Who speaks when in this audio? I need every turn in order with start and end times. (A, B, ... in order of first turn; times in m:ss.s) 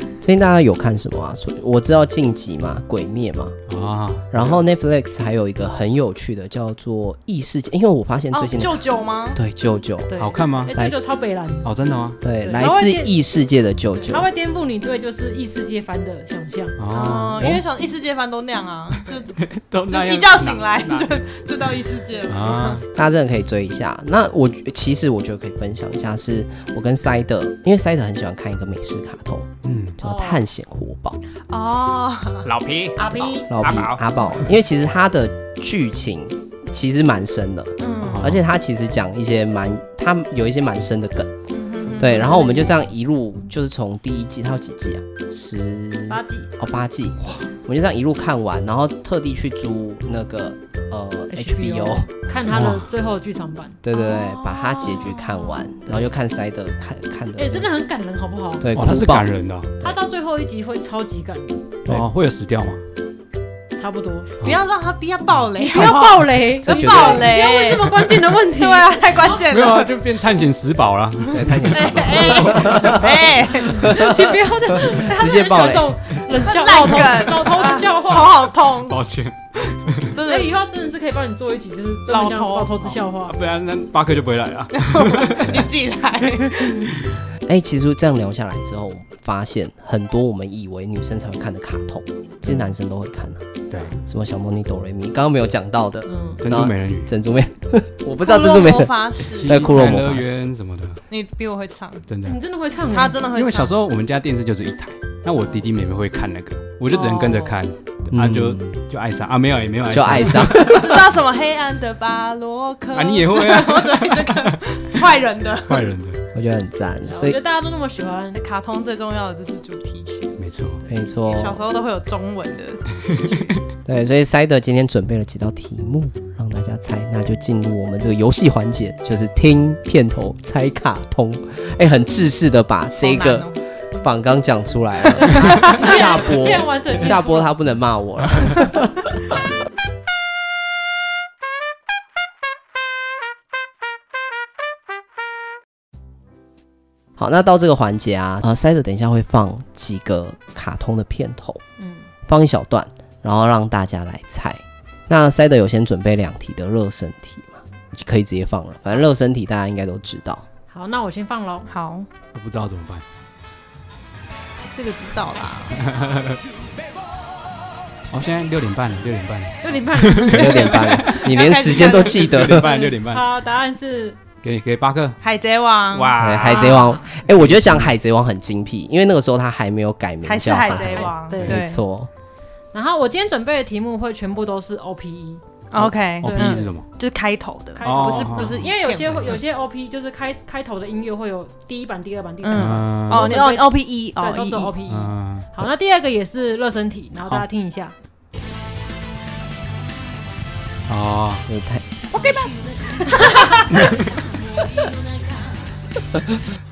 0:00.2-0:03.6 A
0:03.7-0:04.6 B
0:04.3-0:10.1 A
0:08.3-0:09.4 C
0:10.1-0:11.7 D
0:10.2-0:10.7 B
0:11.6-0:12.2 B
0:12.2-0:14.3 A
0:12.4-0:13.2 D
0:14.0-0:16.8 D
0:16.8-0:17.6 B
0:16.9-0:22.8 C
0:19.4-0:21.2 B
0:22.3-0:22.8 B
0:22.9-0:31.2 A
0:29.6-0:30.0 B
0:30.0-0:30.4 D
0:31.5-0:32.5 C
0:32.4-0:34.0 B
0:33.0-0:33.5 D
0:33.0-0:33.3 C
0:33.5-0:41.3 A
0:37.8-0:38.3 C
0:38.0-0:38.4 B
0:41.5-0:42.7 C
0:42.0-0:52.1 A
0:46.1-0:46.5 D
0:51.3-0:53.8 D
0:52.5-0:52.9 B
0:53.8-0:57.7 A
0:53.9-0:55.7 C
0:57.4-0:58.7 D
0:58.6-0:59.3 A
0:58.7-0:59.7 B
0:59.8-1:01.7 D
1:01.9-1:02.8 B
1:03.8-1:04.3 D
1:04.4-1:09.9 C
1:05.6-1:09.4 D
1:06.6-1:07.3 A
1:09.5-1:13.0 B
1:11.3-1:16.0 A
1:11.7-1:13.9 C
1:13.8-1:18.4 D
1:16.3-1:19.0 C
1:18.9-1:19.4 B
1:20.0-1:20.5 C
1:20.2-1:23.4 D
1:22.1-1:23.0 C
1:23.3-1:25.6 B
1:24.7-1:26.9 C
1:25.4-1:25.7 A
1:27.4-1:33.4 A
1:33.7-1:34.0 B
1:34.0-1:40.4 A
1:36.1-1:36.4 D
1:36.4-1:37.1 B
1:38.2-1:40.0 C
1:39.3-1:41.0 B
1:41.1-1:42.0 C
1:42.1-1:42.4 B
1:42.2-1:43.2 D
1:42.8-1:43.8 C
1:43.3-1:50.8 B
1:46.9-1:47.6 D
1:48.1-1:48.8 A
1:49.9-1:51.1 A
1:50.6-1:55.9 C
1:52.9-1:54.6 B
1:55.7-1:56.2 B
1:56.3-1:57.4 A
1:57.1-1:58.4 D
1:58.4-2:00.3 C
2:00.4-2:00.8 B
2:00.9-2:01.6 A
2:01.2-2:03.6 C
2:03.9-2:18.9 A
2:13.0-2:13.6 C
2:15.6-2:17.5 D
2:27.2-2:31.6 A
2:31.8-2:32.1 D
2:32.3-2:40.4 A
2:40.7-2:41.7 D
2:41.7-2:42.1 C
2:42.3-2:43.0 B
2:44.7-2:45.8 C
2:45.8-2:46.4 B
2:48.1-2:53.3 B
2:49.6-2:50.8 D
2:50.3-2:52.8 A
2:51.0-2:52.7 C
2:52.6-2:54.2 D
2:54.4-2:55.2 B
2:55.2-2:56.8 C
2:55.9-2:57.9 B
2:56.2-3:02.1 A
2:56.5-2:57.1 D
3:00.2-3:01.8 C
3:00.9-3:01.6 D
3:02.7-3:05.4 D
3:05.7-3:09.4 C
3:05.8-3:06.9 B
3:06.2-3:06.7 D
3:07.8-3:17.9 D
3:07.8-3:08.7 B
3:12.4-3:14.7 C
3:12.6-3:13.4 B
3:14.9-3:15.5 B
3:20.9-3:21.4 B
3:21.5-3:21.9 A
3:22.2-3:22.5 C
3:23.1-3:23.6 C